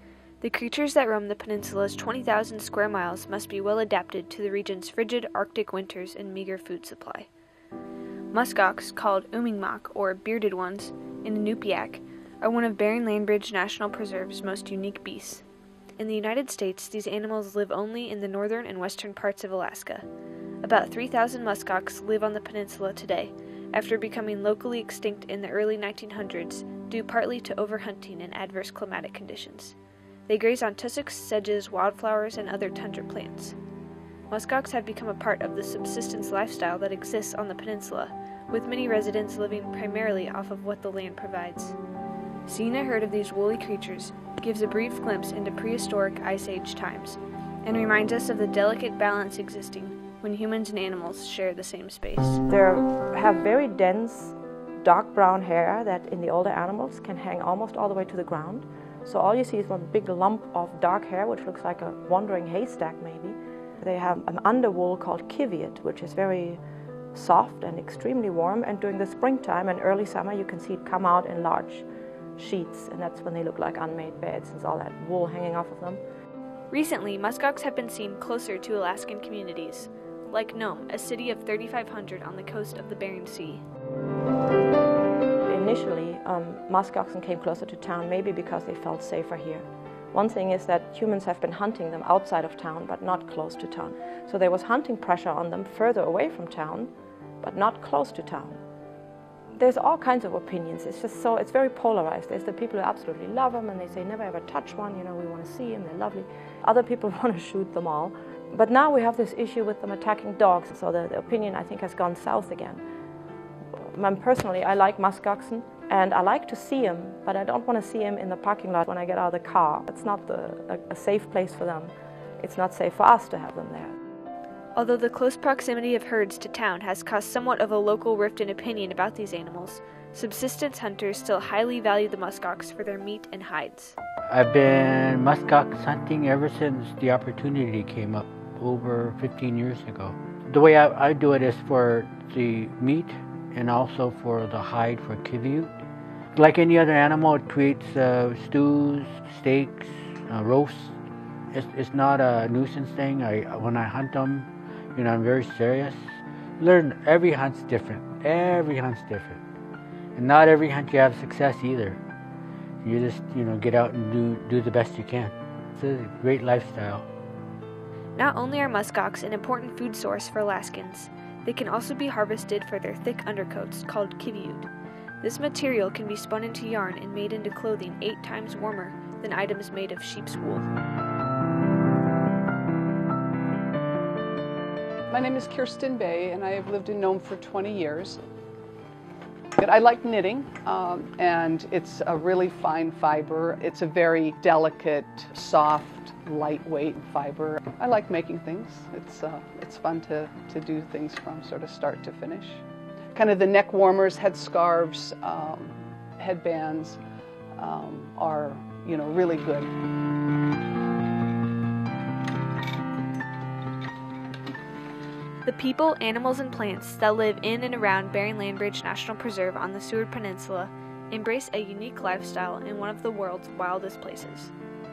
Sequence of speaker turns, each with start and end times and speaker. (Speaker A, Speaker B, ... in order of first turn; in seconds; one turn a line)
Speaker A: 0.4-7.3
Speaker A: 8.3-15.4
Speaker A: 16.0-20.1
Speaker A: 20.6-29.8
Speaker A: 30.3-33.6
Speaker A: 34.3-41.8
Speaker A: 42.5-52.4
Speaker B: 52.5-66.6
Speaker B: 67.1-71.8
Speaker B: 72.4-76.0
Speaker A: 76.7-83.6
Speaker B: 85.5-96.9
Speaker B: 97.4-98.6
Speaker B: 99.6-112.8
Speaker B: 113.8-123.9
Speaker A: 124.8-133.9
Speaker C: 134.3-145.7
Speaker C: 146.3-150.9
Speaker C: 151.5-156.0
Speaker C: 156.6-159.4
Speaker C: 160.2-162.0
Speaker C: 162.8-167.1
Speaker A: 168.2-174.7
Speaker A: 175.2-180.7
Speaker D: 185.1-188.2
Speaker D: 189.6-202.6
Speaker D: 203.1-207.0
Speaker D: 207.6-209.7
Speaker A: 215.4-224.5